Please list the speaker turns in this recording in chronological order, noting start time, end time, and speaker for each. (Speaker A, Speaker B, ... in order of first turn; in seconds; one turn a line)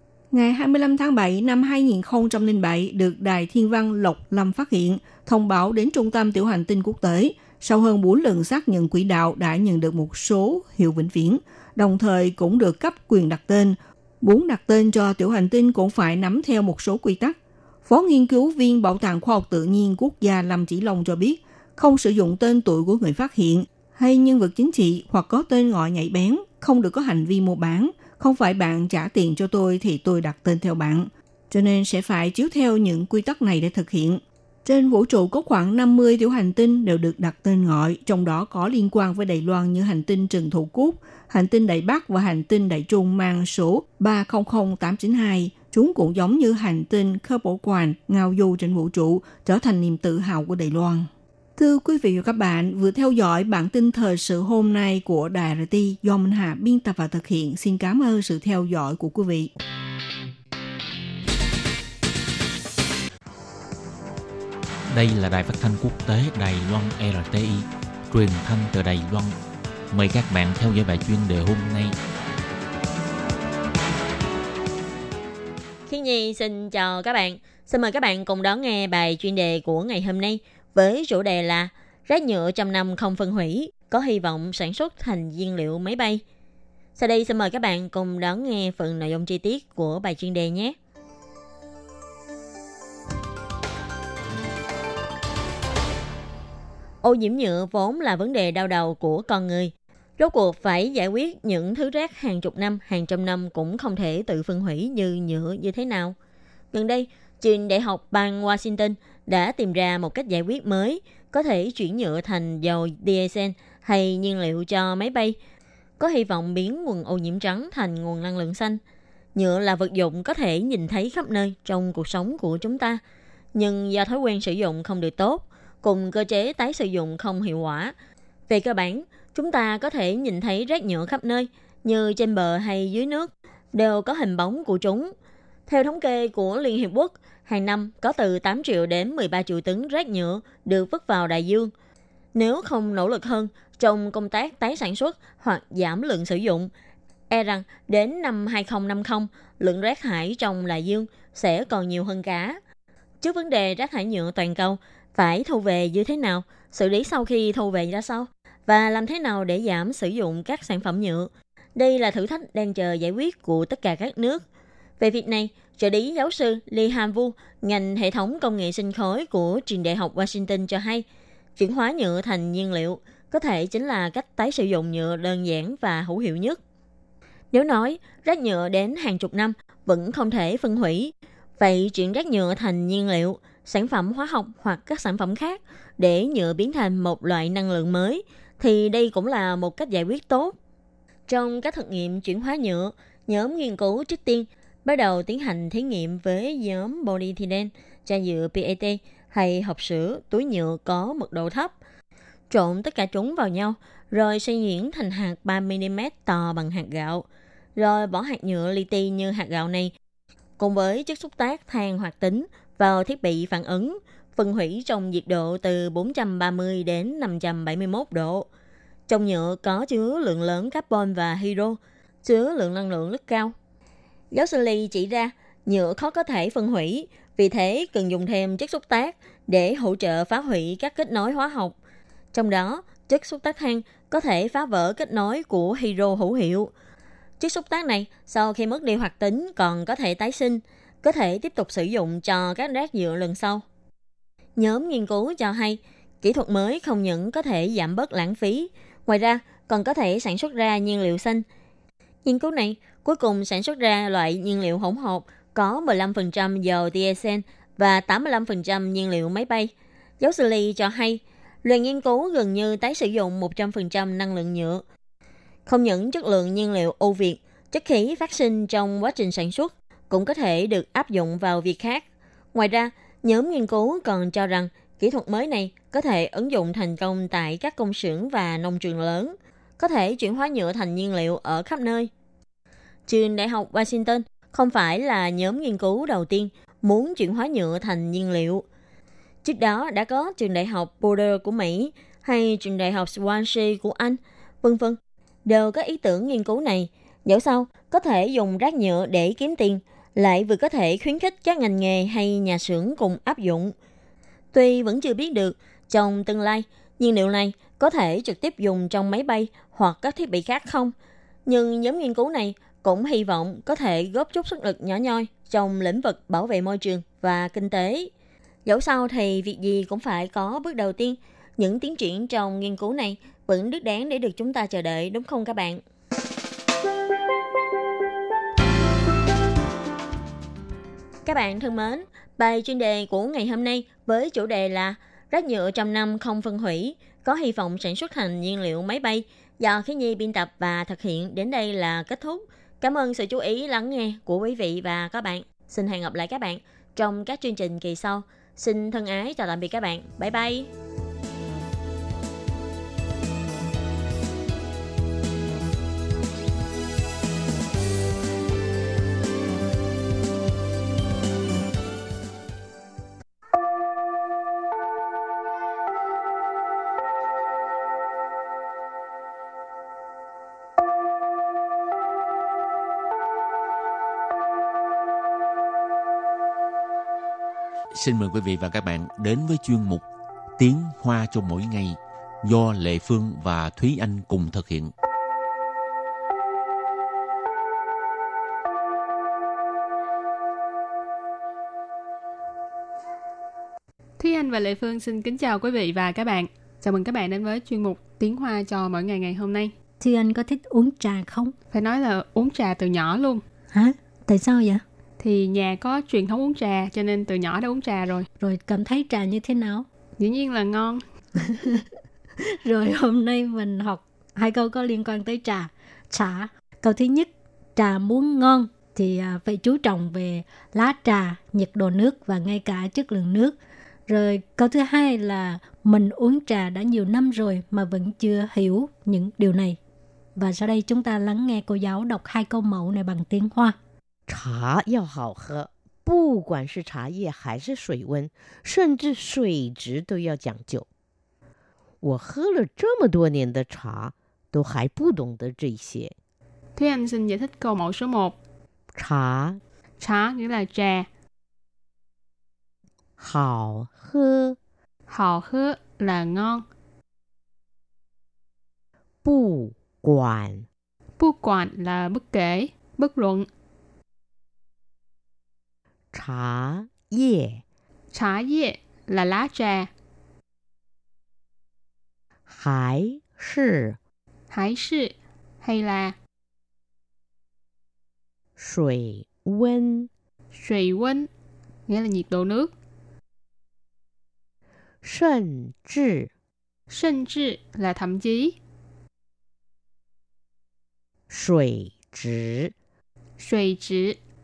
Speaker A: 0.3-59.5
Speaker B: 64.9-69.3
Speaker B: 69.9-71.9
Speaker C: 75.9-86.2
Speaker C: 87.0-90.8
Speaker C: 97.0-106.2
Speaker C: 106.7-115.4
Speaker C: 116.0-118.8
Speaker C: 119.3-123.0
Speaker C: 123.5-127.9
Speaker C: 128.5-135.1
Speaker C: 135.7-141.7
Speaker C: 142.3-146.7
Speaker C: 147.3-152.6
Speaker C: 153.2-164.4
Speaker C: 165.0-171.0
Speaker C: 171.6-176.6
Speaker C: 177.5-190.6
Speaker C: 191.3-201.7
Speaker C: 202.5-209.9
Speaker C: 210.6-218.5
Speaker C: 219.1-223.5
Speaker C: 224.3-231.7
Speaker C: 232.3-236.7
Speaker C: 237.4-243.6
Speaker C: 244.6-251.4
Speaker C: 252.2-264.8
Speaker C: 265.6-282.1
Speaker C: 283.1-288.6
Speaker C: 289.4-303.7
Speaker C: 304.5-310.9
Speaker C: 311.4-318.1
Speaker C: 318.6-325.8
Speaker C: 331.2-350.7
Speaker B: 377.9-380.0
Speaker B: 380.6-384.9
Speaker D: 394.2-399.7
Speaker E: 400.0-401.5
Speaker D: 401.7-403.4
Speaker E: 403.7-404.8
Speaker D: 405.2-408.3
Speaker E: 408.4-409.9
Speaker D: 410.2-411.0
Speaker E: 411.4-411.8
Speaker E: 412.4-423.5
Speaker E: 424.1-429.8
Speaker E: 430.4-433.8
Speaker F: 434.3-440.9
Speaker F: 442.0-446.1
Speaker D: 446.8-448.4
Speaker F: 448.9-449.6
Speaker D: 450.0-451.1
Speaker F: 453.2-454.6
Speaker D: 455.1-456.6
Speaker F: 459.2-460.7
Speaker D: 461.2-463.5
Speaker F: 466.1-467.6
Speaker D: 468.1-469.9
Speaker F: 472.5-474.0
Speaker D: 474.5-476.1
Speaker F: 478.6-480.1
Speaker D: 480.5-481.3
Speaker D: 481.9-482.7
Speaker F: 485.0-486.3
Speaker D: 486.9-488.6
Speaker F: 491.3-492.7
Speaker D: 493.4-494.2